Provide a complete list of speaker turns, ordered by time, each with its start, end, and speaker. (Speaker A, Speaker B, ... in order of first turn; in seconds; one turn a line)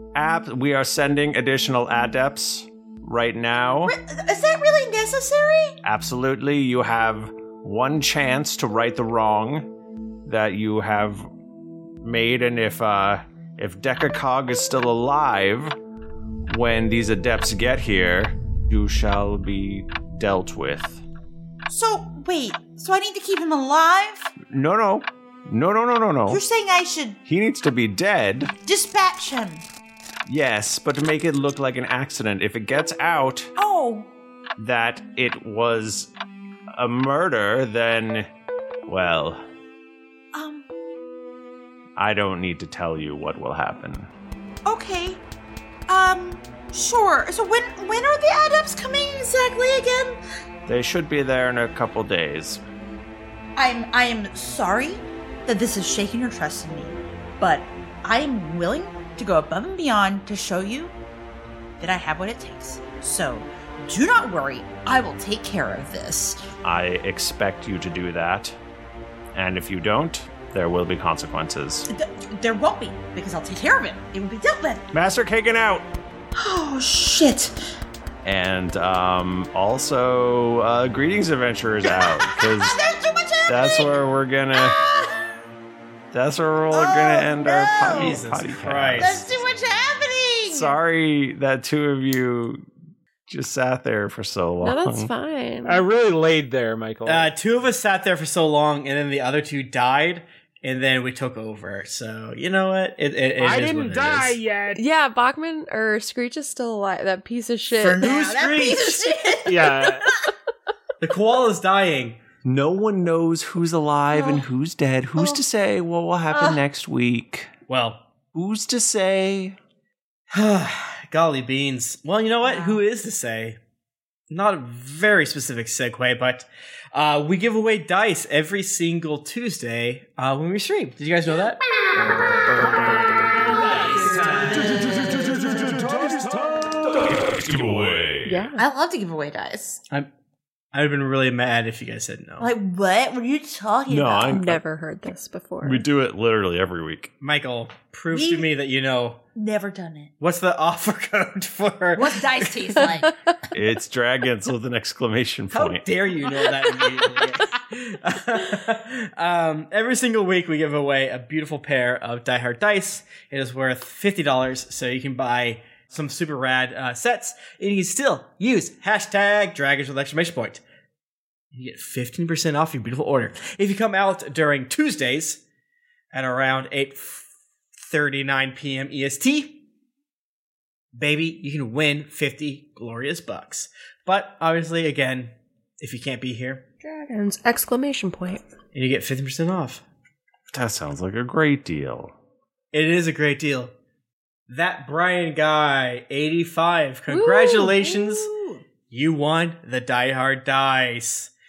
Speaker A: 0.1-4.0
Speaker B: 3.8-5.8
Speaker A: 5.8-9.7
Speaker A: 10.3-11.3
Speaker A: 12.0-15.7
Speaker A: 16.5-21.0
Speaker B: 21.7-24.3
Speaker A: 24.4-26.4
Speaker B: 26.3-27.2
Speaker A: 27.3-28.5
Speaker B: 28.6-29.6
Speaker A: 30.3-33.5
Speaker B: 33.5-34.1
Speaker A: 34.6-36.1
Speaker A: 36.7-38.3
Speaker A: 38.9-39.4
Speaker B: 40.3-40.7
Speaker A: 42.0-44.1
Speaker B: 44.7-45.2
Speaker B: 45.9-50.2
Speaker A: 50.7-52.6
Speaker B: 53.5-60.9
Speaker B: 61.8-66.5
Speaker A: 66.6-68.5
Speaker A: 69.3-71.9
Speaker B: 71.9-74.8
Speaker A: 74.9-75.9
Speaker B: 76.4-77.6
Speaker A: 78.2-82.8
Speaker B: 81.8-85.2
Speaker A: 83.5-84.8
Speaker A: 86.1-89.3
Speaker B: 86.7-88.2
Speaker C: 87.8-89.2
Speaker B: 88.9-90.8
Speaker A: 90.5-92.6
Speaker A: 93.3-95.1
Speaker D: 94.6-95.8
Speaker E: 95.7-97.3
Speaker C: 97.0-104.4
Speaker E: 103.4-104.8
Speaker D: 104.8-108.1
Speaker B: 107.7-110.3
Speaker C: 108.0-109.1
Speaker E: 109.5-110.0
Speaker C: 111.0-112.2
Speaker A: 112.4-117.5
Speaker B: 114.1-114.4
Speaker B: 115.1-115.4
Speaker B: 116.3-116.6
Speaker C: 117.7-118.0
Speaker A: 118.3-119.6
Speaker C: 120.3-123.6
Speaker B: 122.4-122.8
Speaker C: 124.3-131.6
Speaker B: 133.7-135.9
Speaker A: 136.9-138.2
Speaker D: 138.3-138.6
Speaker B: 138.5-139.8
Speaker C: 140.7-142.5
Speaker B: 142.4-144.4
Speaker A: 143.9-144.6
Speaker D: 144.3-145.8
Speaker A: 145.6-147.1
Speaker C: 147.2-149.2
Speaker B: 148.1-148.5
Speaker B: 149.3-150.1
Speaker C: 150.2-152.8
Speaker B: 151.9-153.1
Speaker A: 153.5-155.9
Speaker C: 155.5-170.6
Speaker C: 171.5-175.4
Speaker C: 176.1-177.3
Speaker C: 177.8-179.6
Speaker C: 180.9-186.6
Speaker D: 186.8-188.4
Speaker C: 188.7-189.8
Speaker A: 190.5-192.1
Speaker C: 192.7-193.7
Speaker C: 194.5-198.3
Speaker D: 197.1-198.1
Speaker B: 197.6-198.6
Speaker C: 198.9-201.3